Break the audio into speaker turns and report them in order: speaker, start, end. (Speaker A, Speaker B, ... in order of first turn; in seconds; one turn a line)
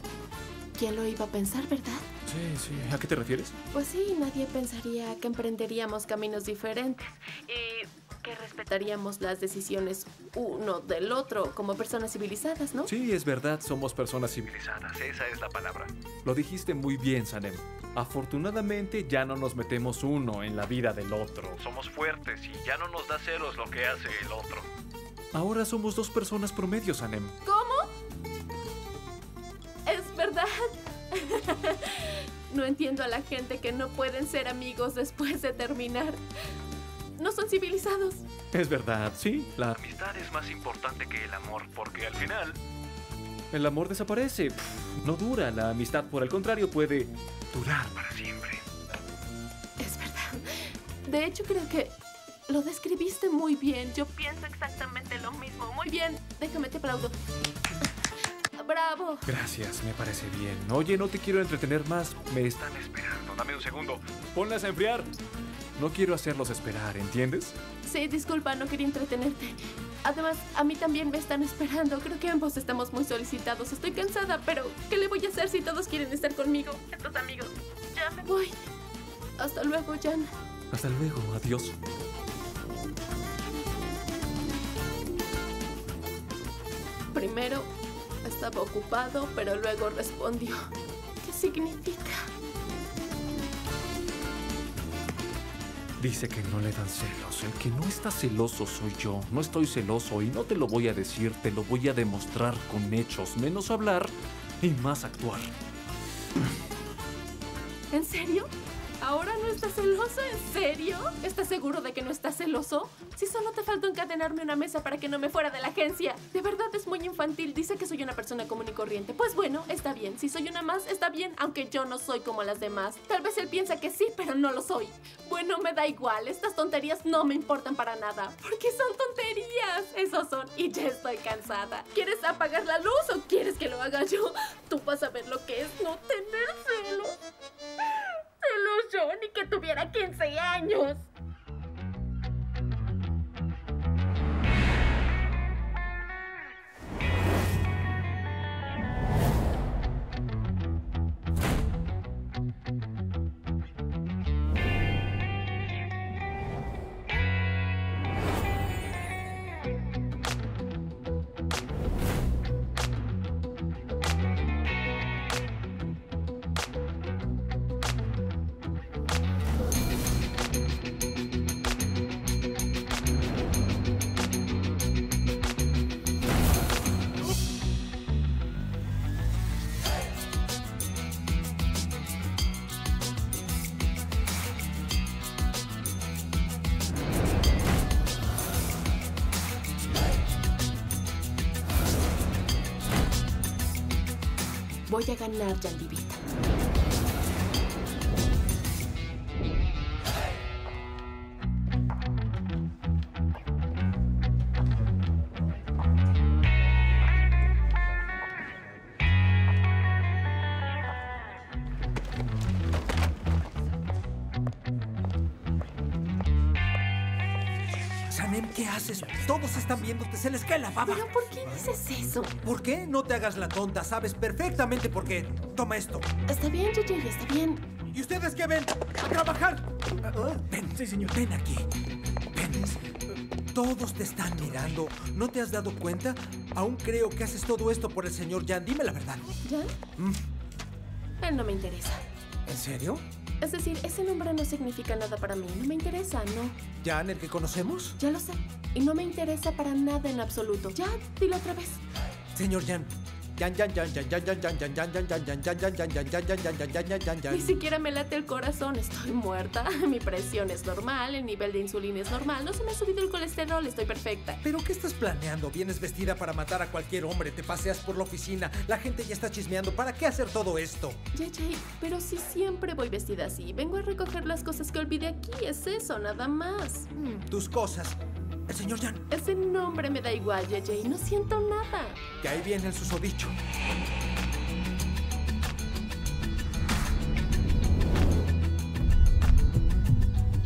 Speaker A: 0.8-2.0
Speaker B: 2.3-3.5
Speaker A: 3.7-12.9
Speaker B: 12.9-24.7
Speaker B: 25.3-27.4
Speaker A: 27.4-27.9
Speaker A: 29.9-36.2
Speaker A: 37.2-38.2
Speaker B: 38.5-42.6
Speaker B: 43.5-48.6
Speaker A: 49.8-52.0
Speaker A: 52.5-57.1
Speaker A: 58.6-59.2
Speaker B: 59.3-65.1
Speaker B: 65.8-67.6
Speaker A: 67.8-78.6
Speaker A: 79.4-80.3
Speaker B: 80.7-81.8
Speaker A: 87.1-87.7
Speaker A: 88.2-90.7
Speaker A: 91.2-92.3
Speaker B: 96.0-105.5
Speaker A: 107.9-108.5
Speaker A: 109.0-137.2
Speaker A: 138.4-141.0
Speaker A: 194.9-196.2
Speaker C: 218.1-221.7
Speaker A: 220.8-222.3
Speaker C: 222.4-226.1
Speaker A: 226.3-227.7
Speaker C: 227.9-231.7
Speaker C: 232.3-232.8
Speaker C: 233.5-239.3
Speaker A: 239.4-239.7
Speaker A: 241.2-242.0
Speaker C: 242.5-243.0
Speaker A: 243.4-246.6
Speaker C: 246.8-248.0
Speaker A: 248.0-251.8
Speaker C: 252.3-257.6
Speaker A: 257.3-264.4
Speaker C: 264.4-271.0
Speaker A: 271.1-276.9
Speaker C: 277.0-278.0
Speaker C: 278.5-279.0
Speaker A: 279.1-282.0
Speaker C: 282.2-283.4